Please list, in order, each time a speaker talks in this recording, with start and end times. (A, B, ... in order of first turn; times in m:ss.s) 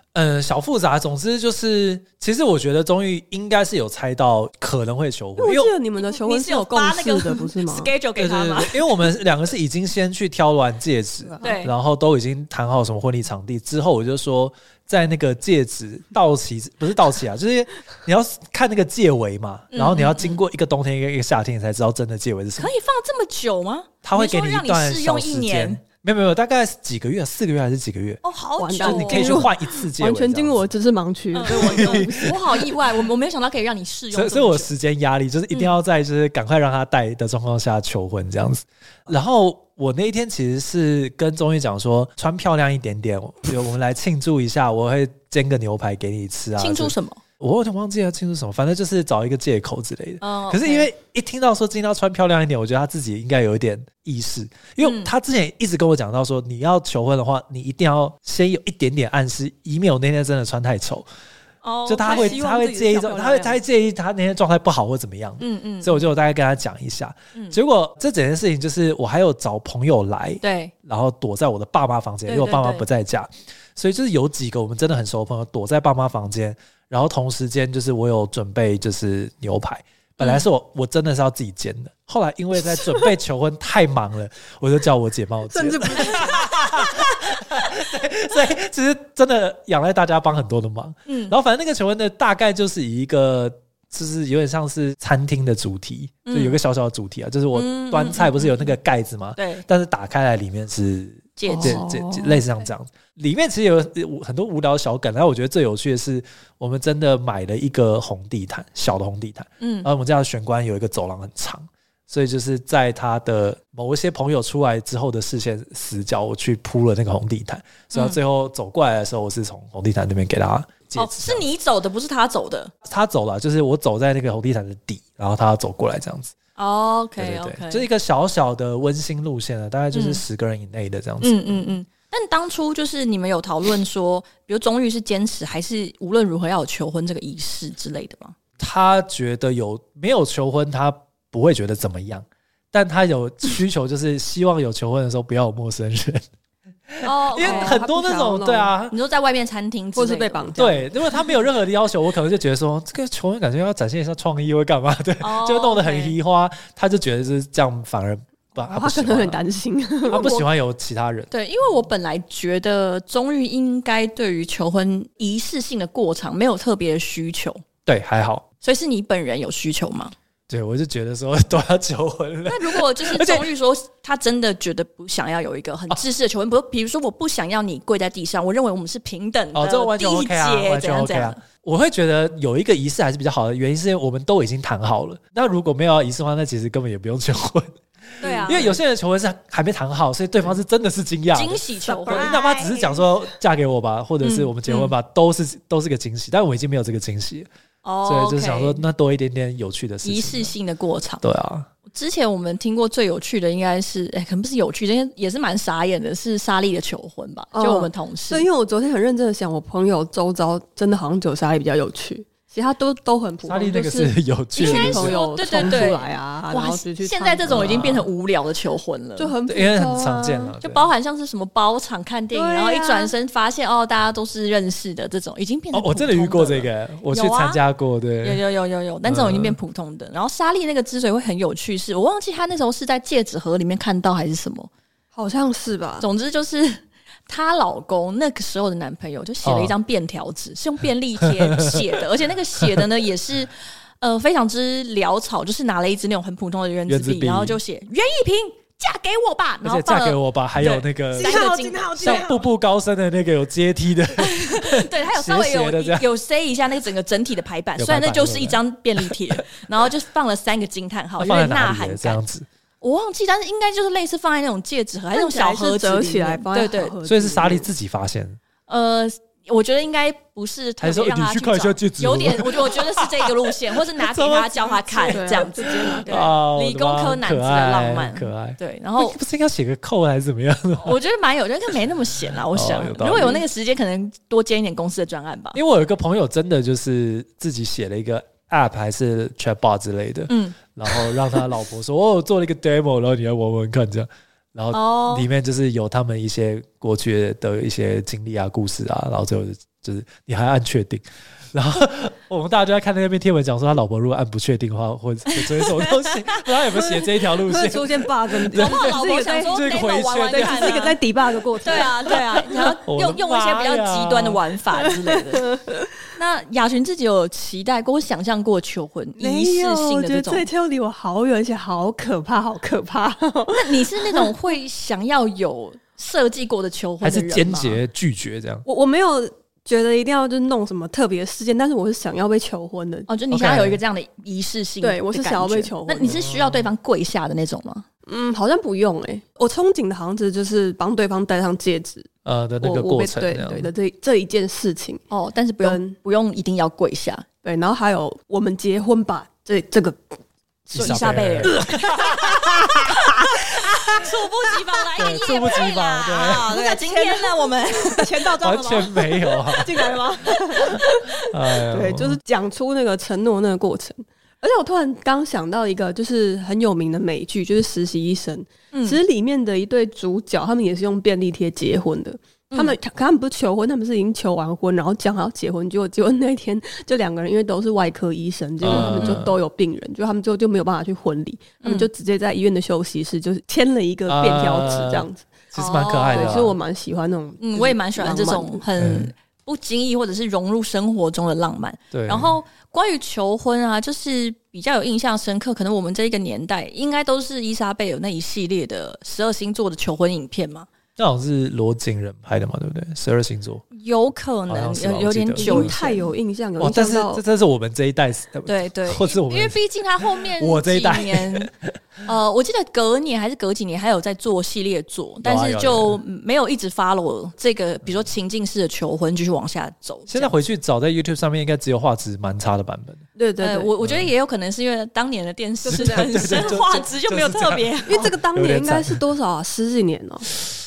0:00.1-0:05.7 A
0:05.4-0:07.9 B
0:06.0-0:09.0 C
0:08.2-0:22.7 A
0:11.3-0:11.6 B
0:11.4-0:11.7 C
0:19.7-0:20.4 C
0:22.6-0:25.8 C
0:24.0-0:28.2 A
0:28.2-0:29.5 C
0:28.6-0:32.6 B
0:28.8-0:30.6 A
0:31.3-0:34.7 C
0:31.5-0:32.4 A
0:34.1-1:01.1 A
0:46.6-0:47.2 C
0:50.2-0:50.9 C
0:54.8-0:55.1 C
1:01.6-1:03.2 C
1:01.9-2:01.4 A
1:02.0-1:03.6 B
1:05.4-1:06.0 C
1:10.4-1:10.7 C
1:12.3-1:12.8 C
1:20.2-1:20.4 C
1:25.5-1:26.9 B
1:31.0-1:31.3 C
1:36.2-1:36.6 C
1:37.5-1:38.7 C
1:39.4-1:39.6 C
1:41.4-1:41.9 C
1:41.5-1:42.4 B
1:49.6-1:49.9 C
1:57.9-1:58.2 C
2:00.9-2:02.7 C
2:02.8-2:06.3 A
2:06.6-2:07.9 C
2:07.2-2:11.6 A
2:09.9-2:10.2 C
2:11.2-2:18.3 C
2:18.6-2:26.2 A
2:26.9-2:28.9 A
2:27.0-2:27.8 C
2:27.3-2:28.7 B
2:28.9-2:30.8 C
2:29.9-2:30.8 B
2:30.6-2:39.4 A
2:35.2-2:36.2 C
2:38.6-2:40.3 B
2:40.1-2:40.4 C
2:40.1-2:41.3 A
2:41.3-2:47.6 C
2:47.8-2:48.4 A
2:48.6-2:50.1 C
2:50.5-2:53.5 A
2:52.4-3:01.4 C
2:59.5-3:07.8 A
3:08.2-3:08.8 C
3:08.4-3:17.5 A
3:11.3-3:12.4 C
3:11.8-3:13.1 B
3:14.2-3:14.9 C
3:17.8-3:18.8 C
3:18.0-3:20.5 A
3:20.0-3:21.2 C
3:21.2-3:21.7 A
3:21.9-3:28.5 C
3:27.5-3:37.9 B
3:33.4-3:35.9 A
3:34.6-3:39.3 C
3:37.4-3:38.1 A
3:39.2-3:40.6 B
3:39.5-3:40.9 A
3:40.6-3:47.6 C
3:42.3-3:43.1 B
3:45.7-3:48.4 A
3:48.2-3:54.7 C
3:49.0-3:49.6 A
3:55.1-3:56.0 B
3:56.0-4:12.3 C
3:59.4-3:59.7 A
4:01.3-4:02.0 A
4:06.9-4:07.6 A
4:09.6-4:16.1 A
4:11.2-4:12.4 B
4:14.2-4:22.2 C
4:17.8-4:19.2 A
4:21.2-4:22.5 A
4:22.8-4:26.9 C
4:25.1-4:27.7 B
4:27.0-4:28.4 A
4:28.7-4:39.2 C
4:30.8-4:41.0 A
4:35.1-4:36.3 B
4:40.8-4:45.6 C
4:42.5-4:43.4 A
4:45.5-5:10.9 A
4:50.3-4:51.0 C
4:54.7-4:55.3 C
5:05.3-5:06.4 C
5:06.7-5:09.7 B
5:08.5-5:11.0 C
5:10.3-5:12.6 B
5:11.6-5:15.5 C
5:12.1-5:14.4 A
5:15.0-5:15.9 B
5:16.1-5:20.5 C
5:19.2-5:24.3 B
5:23.5-5:27.8 C
5:27.0-5:28.6 A
5:28.6-5:33.1 B
5:33.1-5:37.8 C
5:33.3-5:33.8 A
5:34.8-5:36.2 B
5:36.0-5:36.7 A
5:38.1-5:42.1 B
5:42.2-5:43.7 A
5:42.6-5:45.0 B
5:45.1-5:47.2 C
5:45.6-5:46.0 B
5:47.4-5:50.0 B
5:50.7-5:53.4 B
5:50.7-5:52.4 C
5:50.7-5:54.0 A
5:53.6-5:58.3 C
5:55.0-5:56.5 A
5:56.2-6:25.3 B
5:58.4-6:00.0 A
6:00.6-6:02.2 A
6:08.7-6:09.0 C
6:12.5-6:12.8 C
6:18.6-6:19.4 A
6:18.7-6:19.2 C
6:21.6-6:21.9 C
6:24.1-6:26.6 A
6:25.5-6:26.4 C
6:26.1-6:28.6 B
6:27.4-6:40.7 C
6:28.8-6:29.1 A
6:31.9-6:32.4 A
6:41.0-6:43.6 A
6:43.7-6:46.0 C
6:44.5-6:45.8 A
6:45.4-6:47.2 B
6:46.6-6:49.6 A
6:48.4-6:51.5 C
6:50.2-6:51.7 A
6:52.0-7:00.3 C
6:55.2-6:56.0 A
7:00.1-7:03.0 A
7:03.2-7:03.7 B
7:03.4-7:08.1 C
7:03.8-7:04.1 A
7:05.7-7:06.6 B
7:05.7-7:09.0 A
7:07.8-7:10.3 B